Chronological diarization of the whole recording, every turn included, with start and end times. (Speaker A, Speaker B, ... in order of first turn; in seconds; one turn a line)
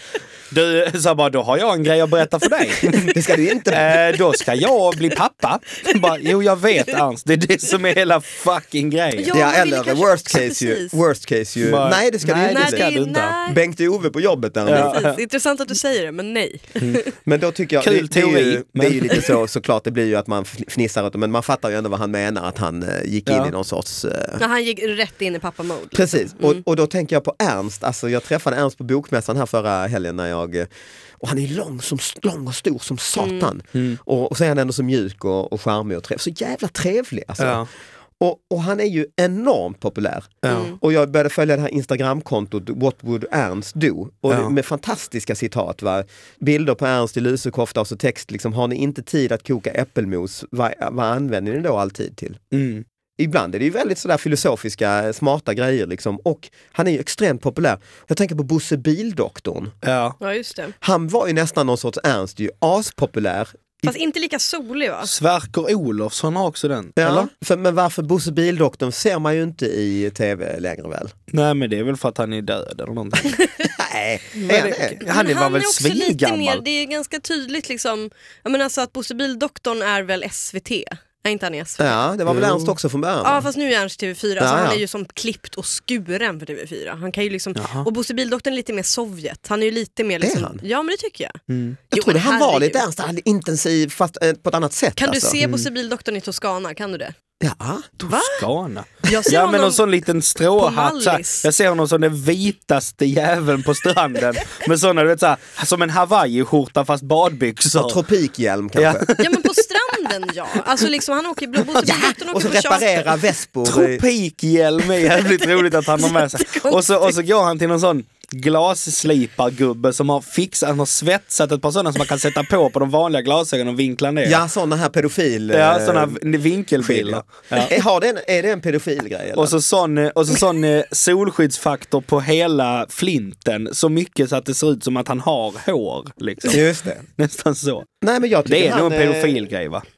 Speaker A: 0.5-3.1
Speaker B: 3.0-4.0
Speaker A: 3.7-9.3
Speaker C: 9.1-11.0
Speaker B: 9.3-12.9
Speaker A: 11.6-13.4
Speaker C: 12.5-13.6
Speaker B: 13.4-15.0
Speaker A: 14.7-15.2
Speaker C: 14.7-17.1
Speaker B: 17.2-24.4
Speaker A: 17.8-19.3
Speaker A: 23.2-23.5
Speaker C: 24.4-26.6
Speaker B: 25.9-30.7
Speaker B: 31.2-37.6
Speaker C: 33.2-33.5
Speaker A: 37.4-37.7
Speaker B: 38.2-52.4
Speaker A: 40.4-40.8
Speaker C: 40.5-40.8
Speaker A: 44.3-44.5
Speaker A: 52.5-52.9
Speaker B: 53.2-59.7
Speaker A: 59.8-60.2
Speaker C: 60.2-60.8
Speaker B: 60.8-63.9
Speaker C: 63.8-65.1
Speaker A: 65.0-67.3
Speaker B: 67.0-71.1
Speaker A: 71.3-73.4
Speaker C: 73.2-73.7
Speaker B: 73.7-75.0
Speaker C: 74.4-82.0
Speaker A: 74.5-76.6
Speaker B: 81.8-83.5
Speaker A: 82.3-82.7
Speaker C: 83.2-91.4
Speaker B: 84.4-84.8
Speaker A: 87.5-87.9
Speaker B: 90.2-90.6
Speaker A: 91.5-91.8
Speaker C: 91.9-92.8
Speaker B: 91.9-95.4
Speaker C: 95.0-97.1
Speaker B: 97.4-98.0
Speaker A: 98.1-108.0
Speaker C: 98.1-98.5
Speaker C: 99.0-99.8
Speaker C: 100.5-101.5
Speaker B: 107.8-109.1
Speaker A: 108.8-110.9
Speaker C: 109.2-113.2
Speaker A: 111.6-112.0
Speaker B: 111.8-114.0
Speaker A: 113.6-124.4
Speaker C: 115.2-117.2
Speaker B: 124.2-126.2
Speaker A: 125.5-127.7
Speaker B: 126.8-129.6
Speaker A: 129.3-136.6
Speaker B: 136.5-137.1
Speaker A: 137.1-137.9
Speaker B: 138.0-139.5
Speaker A: 138.5-139.8